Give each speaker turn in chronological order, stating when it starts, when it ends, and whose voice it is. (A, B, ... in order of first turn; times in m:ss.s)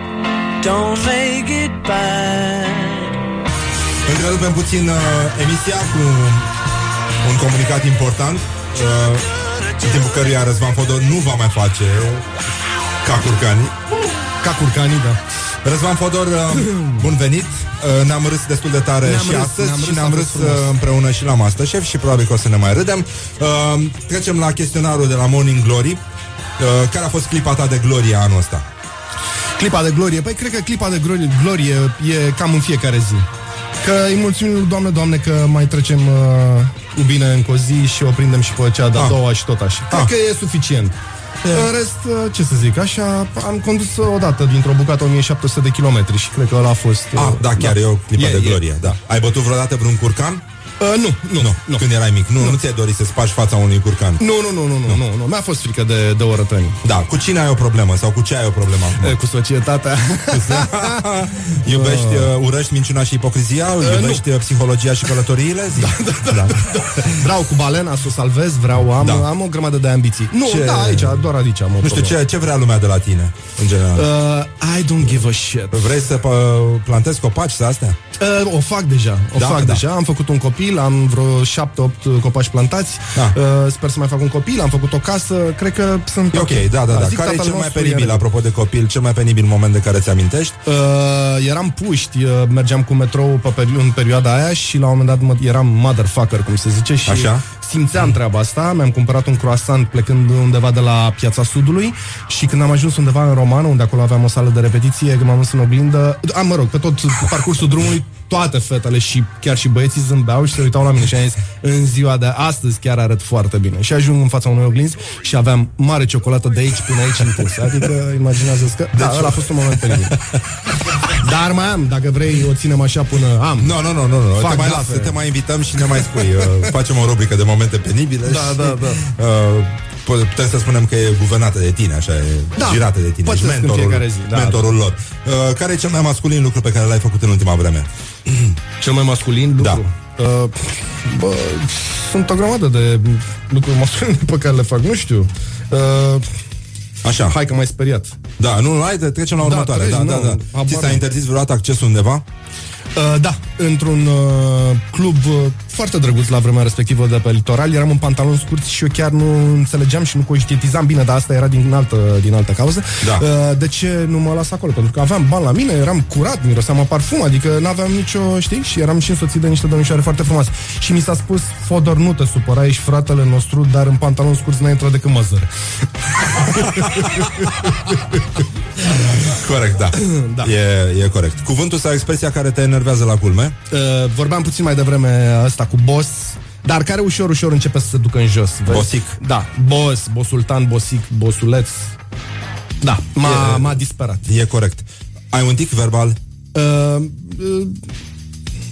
0:00.6-0:03.1 A
0:04.1-0:06.5 B
0:07.2-0:09.3 B
0:09.8-0:12.3 B
0:13.0-0:13.8 B
0:14.4-0:15.2 C
0:15.6-0:26.0 B
0:16.6-0:16.9 C
0:19.0-0:20.7 C
0:26.6-0:28.7 B
0:29.6-0:33.3 C
0:33.8-0:48.6 C
0:38.9-0:39.2 B
0:41.4-0:41.7 B
0:47.2-0:50.4 B
0:50.8-0:51.9 C
0:51.4-0:54.2 B
0:54.2-0:56.8 C
0:56.8-0:59.2 B
0:59.0-1:01.0 C
1:00.3-1:07.2 B
1:01.7-1:02.3 C
1:03.8-1:04.2 C
1:05.8-1:12.1 C
1:09.0-1:09.3 B
1:10.4-1:11.3 B
1:11.8-1:14.1 B
1:14.0-1:15.9 C
1:15.7-1:18.0 B
1:18.2-1:28.2 C
1:19.4-1:19.8 B
1:26.3-1:30.6 B
1:30.6-2:00.1 C
1:37.1-1:37.5 B
1:58.9-2:00.2 B
2:01.1-2:03.8 C
2:03.6-2:18.6 B
2:04.4-2:05.2 C
2:08.2-2:09.0 C
2:12.6-2:14.7 C
2:18.8-2:26.3 C
2:27.0-2:27.4 B
2:27.2-2:28.2 C
2:28.4-2:32.3 B
2:29.4-2:31.0 C
2:33.0-2:55.5 C
2:56.4-2:57.5 C
2:59.0-3:03.6 B
3:00.0-3:00.5 C
3:03.7-3:11.9 C
3:08.7-3:09.2 B
3:12.8-3:14.3 C
3:13.2-3:16.2 B
3:16.5-3:17.8 C